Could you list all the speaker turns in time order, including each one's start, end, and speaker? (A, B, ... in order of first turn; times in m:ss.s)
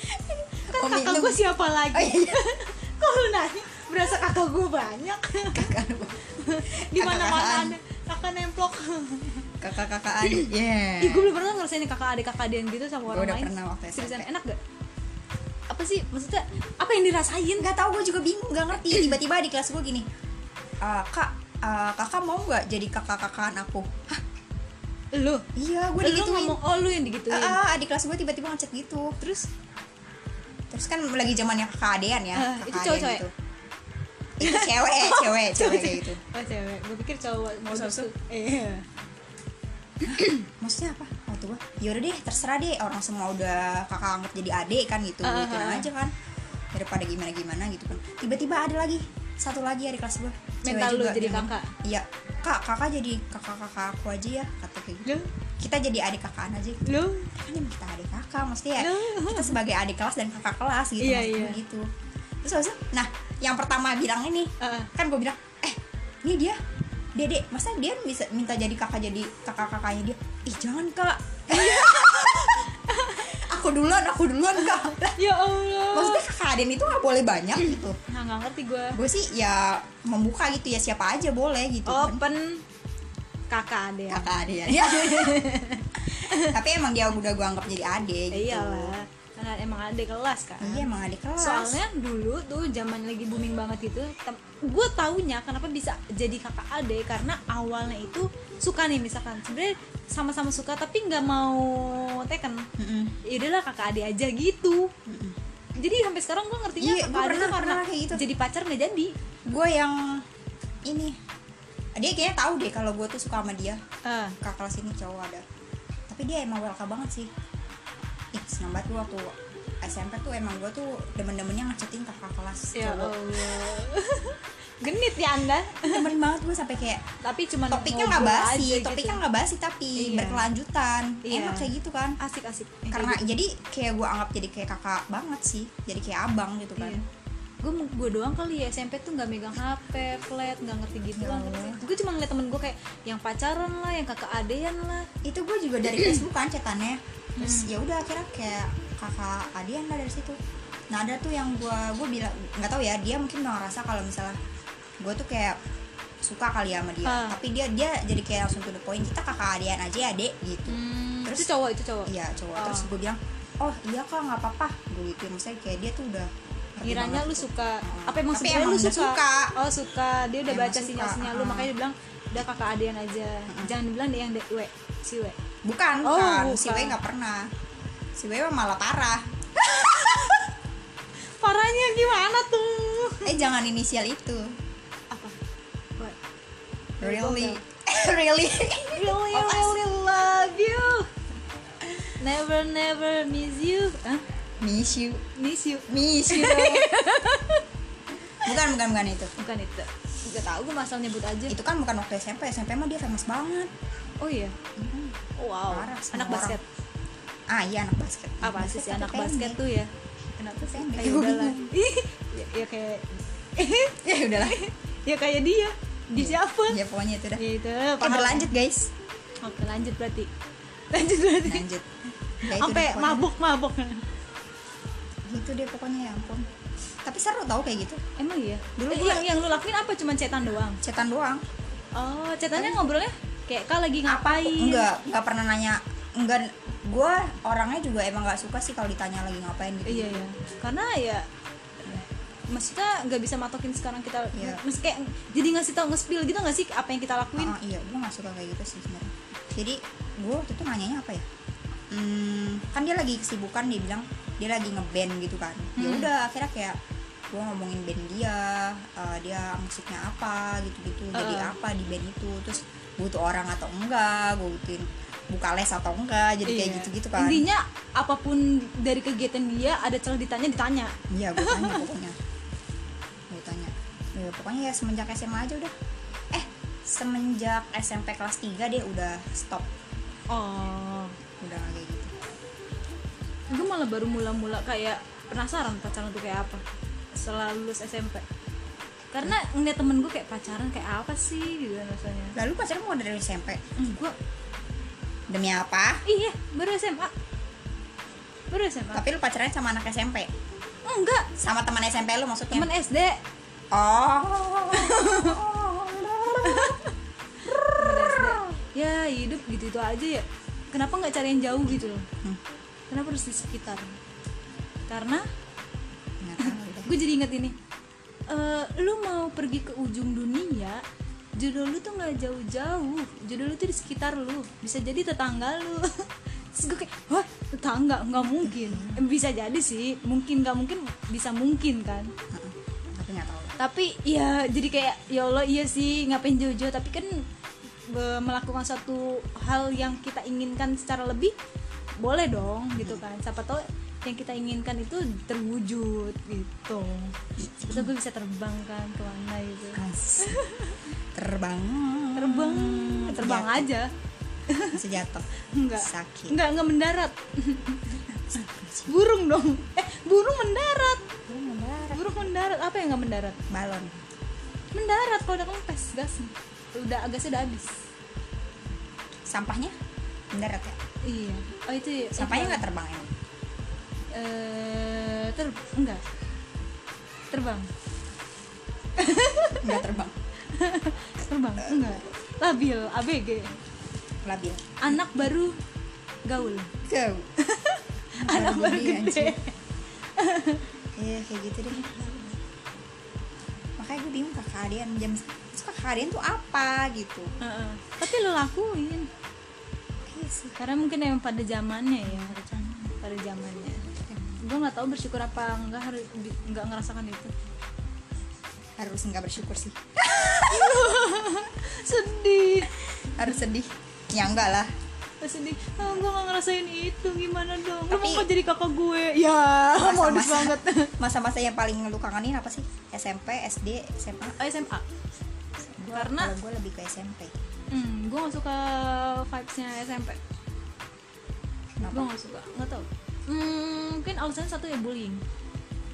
0:00.2-0:05.7 A
0:00.6-0:02.4 B
0:05.5-0:06.3 B
0:06.4-0:09.5 A
0:06.8-0:07.8 B
0:09.6-0:11.4 B
0:11.0-0:14.6 A
0:13.1-0:14.3 B
0:15.7-0:17.7 A
0:17.6-0:20.1 B
0:20.8-0:24.2 B
0:25.1-0:25.5 A
0:25.6-0:26.6 B
0:26.0-0:27.6 A
0:27.3-0:29.2 B
0:29.2-0:29.5 A
0:30.7-0:33.3 B
0:32.4-0:33.3 A
0:34.4-0:36.2 B
0:34.4-0:38.9 A
0:37.7-0:38.1 B
0:40.0-0:46.1 B
0:45.2-0:45.9 A
0:46.7-1:01.9 B
0:50.6-0:51.7 A
0:56.9-0:57.3 A
0:58.8-0:59.6 A
1:01.0-1:01.6 A
1:02.4-1:06.6 B
1:04.6-1:04.9 A
1:07.2-1:15.2 B
1:11.5-1:13.4 A
1:14.7-1:16.2 A
1:15.9-1:18.0 B
1:18.1-1:19.0 A
1:19.0-1:22.2 B
1:21.9-1:22.6 A
1:23.5-1:26.6 A
1:24.1-1:25.4 B
1:26.2-1:28.9 B
1:28.3-1:42.7 A
1:30.6-1:31.8 B
1:42.8-1:43.2 B
1:43.2-1:44.9 A
1:45.1-1:45.4 B
1:45.8-1:49.1 A
1:46.8-1:48.2 B
1:49.5-1:50.2 B
1:50.8-1:51.2 B
1:52.0-1:53.8 B
1:54.0-1:54.4 A
1:54.4-1:55.4 B
1:56.1-1:57.3 B
1:58.3-2:03.6 B
2:02.8-2:06.1 A
2:05.8-2:07.0 B
2:07.2-2:09.2 A
2:07.7-2:12.2 B
2:10.0-2:10.5 A
2:11.2-2:13.2 A
2:12.9-2:17.0 B
2:16.8-2:17.0 A
2:17.6-2:25.1 A
2:21.2-2:21.9 B
2:25.2-2:30.4 B
2:27.4-2:27.7 A
2:30.9-2:34.4 B
2:35.0-2:35.6 B
2:36.2-2:41.5 B
2:37.0-2:37.4 A
2:40.7-2:42.9 A
2:42.1-2:49.5 B
2:46.8-2:55.4 A
2:50.5-2:51.7 B
2:53.5-2:53.8 B
2:55.6-2:57.5 B
2:56.0-2:57.0 A
2:58.2-3:00.4 B
2:59.6-3:00.5 A
3:01.4-3:03.4 A
3:03.2-3:04.6 B
3:05.1-3:05.4 A
3:07.0-3:07.6 A
3:07.0-3:09.8 B
3:08.9-3:11.1 A
3:12.1-3:14.2 A
3:14.6-3:15.2 B
3:15.4-3:17.6 A
3:15.9-3:16.9 B
3:18.4-3:19.3 B
3:19.4-3:21.6 A
3:21.5-3:23.7 B
3:24.2-3:24.6 A
3:24.8-3:25.2 B
3:25.4-3:26.6 A
3:25.7-3:26.6 B
3:27.5-3:29.6 B
3:28.4-3:36.8 A
3:30.6-3:31.7 B
3:34.0-3:34.6 B
3:36.2-3:37.4 B
3:37.4-3:38.5 A
3:38.0-3:38.9 B
3:39.4-3:40.3 A
3:40.9-3:41.7 A
3:41.4-3:41.9 B
3:42.4-3:43.3 B
3:42.5-3:44.0 A
3:45.3-3:46.5 B
3:47.0-3:48.0 B
3:48.2-3:50.8 A
3:48.8-3:49.4 B
3:50.8-3:51.4 B
3:52.0-3:54.9 A
3:52.6-3:52.9 B
3:54.1-4:00.3 B
3:59.8-4:01.2 A
4:02.5-4:07.6 A
4:04.3-4:04.6 B
4:07.4-4:11.3 B
4:11.9-4:16.8 B
4:15.8-4:16.1 A
4:17.3-4:27.5 B
4:21.1-4:21.5 A
4:26.4-4:31.8 A
4:31.1-4:32.2 B
4:33.3-4:35.7 B
4:36.3-4:39.7 B
4:40.3-4:41.1 A
4:41.4-4:42.1 B
4:43.5-4:46.6 A
4:47.2-4:48.2 A
4:49.1-4:52.4 A
4:52.4-4:53.7 B
4:53.8-4:54.1 A
4:55.3-4:56.0 B
4:56.0-4:57.1 A
4:58.5-4:59.0 A
4:58.9-5:00.3 B
5:00.8-5:01.3 A
5:01.4-5:02.7 B
5:02.5-5:03.2 A
5:03.7-5:06.8 B
5:04.7-5:05.4 A
5:06.3-5:06.9 A
5:07.4-5:08.5 B
5:07.7-5:12.1 A
5:12.9-5:14.0 A
5:14.9-5:15.2 A
5:16.2-5:16.9 B
5:16.4-5:17.6 A
5:18.3-5:20.8 A
5:21.4-5:32.1 A
5:28.4-5:29.0 B
5:32.3-5:33.6 B
5:33.6-5:37.3 A
5:37.9-5:41.3 A
5:42.0-5:50.9 A
5:47.4-5:47.9 B
5:49.8-5:50.4 B
5:51.2-5:53.7 B
5:52.2-5:53.9 A
5:54.5-5:54.8 A
5:54.7-5:55.3 B
5:55.5-5:58.0 A
5:55.8-5:56.4 B
5:58.1-5:58.9 B
5:58.9-6:01.0 A
6:01.3-6:02.3 B
6:01.9-6:03.4 A
6:03.5-6:04.0 B
6:04.7-6:07.7 A
6:09.3-6:09.8 B
6:10.3-6:10.8 B
6:11.1-6:12.6 A
6:12.2-6:13.1 B
6:14.1-6:16.0 A
6:17.3-6:17.7 A
6:19.0-6:19.8 A
6:19.6-6:20.1 B
6:20.5-6:23.5 A
6:21.7-6:22.0 B
6:24.2-6:25.0 B
6:24.8-6:25.6 A
6:26.3-6:26.7 A
6:26.8-6:27.3 B
6:27.4-6:29.5 A
6:28.2-6:29.4 B
6:30.2-6:30.7 A
6:31.0-6:31.9 B
6:31.7-6:32.4 A
6:33.8-6:37.3 B
6:37.4-6:39.1 A
6:40.1-6:40.6 B
6:40.6-6:42.4 A
6:42.1-6:42.9 B
6:43.0-6:47.3 A
6:44.1-6:44.4 B
6:48.8-6:51.0 B
6:50.0-6:52.7 A
6:52.8-6:54.7 B
6:55.2-7:00.9 A
6:57.9-6:58.3 B
6:59.8-7:04.4 B
7:04.4-7:04.8 A
7:05.6-7:07.4 B
7:05.9-7:06.3 A
7:07.7-7:10.2 A
7:11.8-7:12.1 B
7:11.9-7:15.2 A